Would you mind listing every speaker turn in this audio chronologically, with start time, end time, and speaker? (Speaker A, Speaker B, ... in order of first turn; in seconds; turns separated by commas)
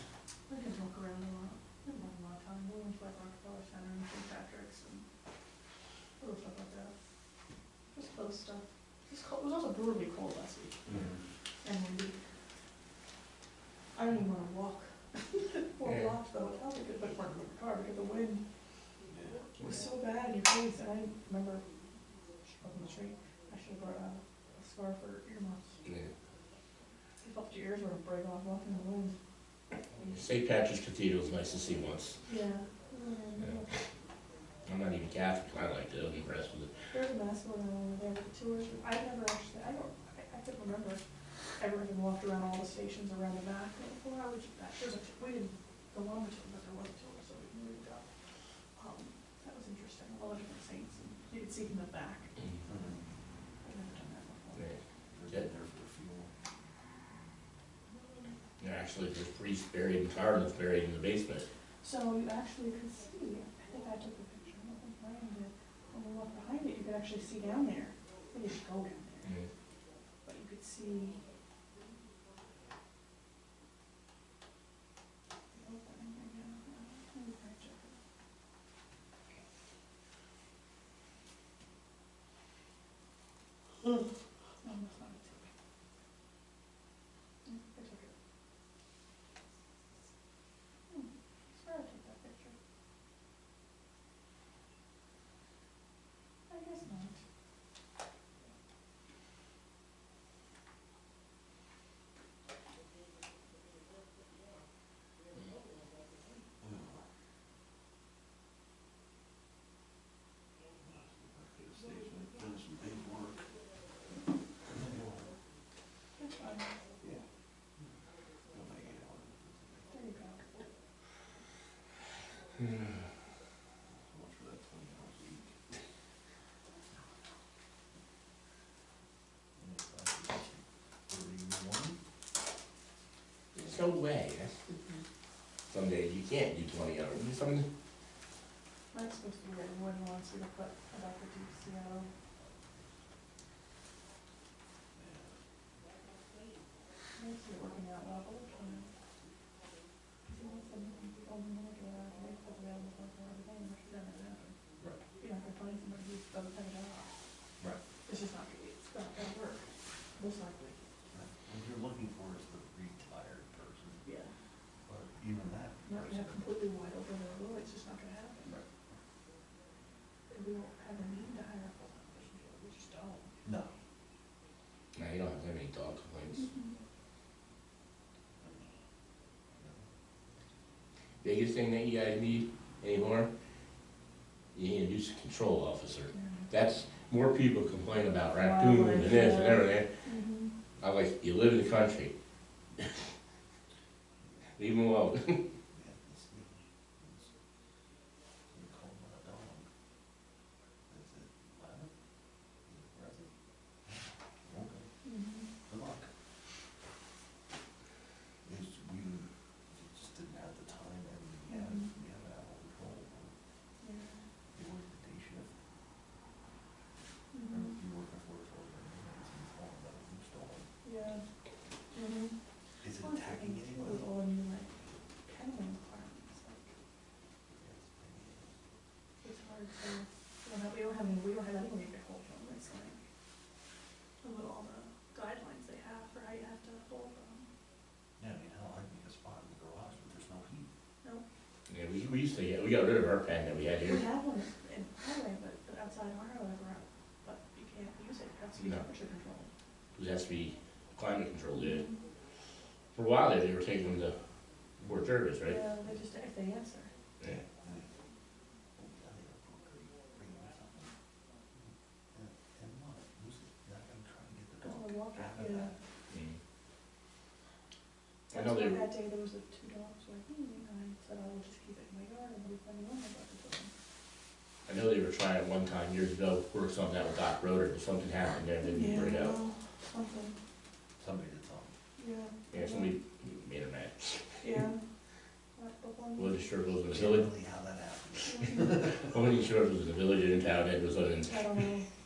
Speaker A: 0.5-5.0, Speaker A: 6.2-6.9, Speaker A: 7.9-10.8, Speaker B: 10.8-11.2, Speaker A: 11.6-12.2, Speaker A: 13.9-18.4, Speaker B: 19.1-19.5, Speaker A: 19.6-21.7, Speaker A: 22.5-25.8, Speaker C: 25.8-26.1, Speaker A: 27.2-29.1, Speaker C: 30.0-32.2, Speaker A: 32.2-33.7, Speaker C: 34.6-36.7, Speaker A: 36.9-41.0, Speaker A: 41.6-48.1, Speaker A: 48.8-52.3, Speaker B: 52.6-53.0, Speaker A: 53.6-54.7, Speaker C: 54.5-55.5, Speaker B: 55.1-56.3, Speaker C: 58.6-61.5, Speaker A: 61.8-69.3, Speaker C: 69.2-69.5, Speaker A: 70.2-71.2, Speaker A: 75.5-78.0, Speaker A: 84.6-85.5, Speaker A: 87.5-88.1, Speaker A: 90.9-92.5, Speaker A: 96.5-97.2, Speaker B: 106.6-107.0, Speaker B: 110.8-113.5, Speaker B: 114.7-115.4, Speaker A: 116.2-116.8, Speaker B: 118.5-119.9, Speaker A: 119.9-120.6, Speaker C: 122.6-122.9, Speaker B: 123.9-125.5, Speaker B: 129.6-132.0, Speaker C: 133.6-134.6, Speaker C: 135.7-137.7, Speaker A: 138.9-142.1, Speaker B: 144.9-145.4, Speaker A: 147.2-148.9, Speaker A: 150.3-154.5, Speaker A: 155.2-157.1, Speaker A: 158.1-160.8, Speaker B: 161.1-164.0, Speaker A: 164.0-164.3, Speaker B: 164.8-166.5, Speaker A: 165.8-168.6, Speaker A: 170.3-173.3, Speaker B: 173.4-173.7, Speaker C: 174.9-176.5, Speaker A: 176.3-176.7, Speaker B: 178.4-178.7, Speaker B: 179.6-179.9, Speaker C: 181.2-183.3, Speaker C: 184.5-189.9, Speaker A: 186.1-186.5, Speaker A: 188.4-190.5, Speaker C: 190.8-192.1, Speaker C: 194.6-195.4, Speaker B: 195.7-197.3, Speaker B: 198.5-199.7, Speaker B: 200.9-201.9, Speaker B: 202.7-203.3, Speaker B: 203.8-204.9, Speaker A: 205.0-205.5, Speaker B: 205.7-206.1, Speaker B: 208.4-213.3, Speaker A: 211.5-211.9, Speaker A: 213.8-214.2, Speaker B: 214.5-215.5, Speaker A: 217.3-217.8, Speaker B: 217.5-220.7, Speaker A: 220.8-221.2, Speaker A: 221.9-222.3, Speaker B: 222.8-224.1, Speaker A: 222.9-226.7, Speaker B: 227.5-228.6, Speaker A: 229.2-233.0, Speaker A: 234.2-237.5, Speaker B: 238.2-240.7, Speaker C: 241.7-244.1, Speaker A: 243.8-249.5, Speaker C: 248.6-248.8, Speaker C: 249.9-251.8, Speaker A: 251.5-252.0, Speaker C: 252.9-254.1, Speaker B: 254.8-255.1, Speaker C: 254.8-255.6, Speaker A: 255.4-256.9, Speaker B: 257.2-257.9, Speaker B: 258.8-260.9, Speaker B: 261.5-265.8, Speaker A: 264.6-265.8, Speaker C: 266.1-266.4, Speaker C: 268.3-268.9, Speaker A: 268.3-273.7, Speaker C: 274.6-279.4, Speaker A: 278.6-280.3, Speaker B: 281.0-281.7, Speaker A: 282.0-282.9, Speaker C: 282.5-284.4, Speaker A: 284.4-284.8, Speaker A: 285.6-286.5, Speaker C: 286.2-287.3, Speaker B: 286.9-289.1, Speaker A: 288.2-288.9, Speaker C: 288.9-291.7, Speaker A: 291.2-291.9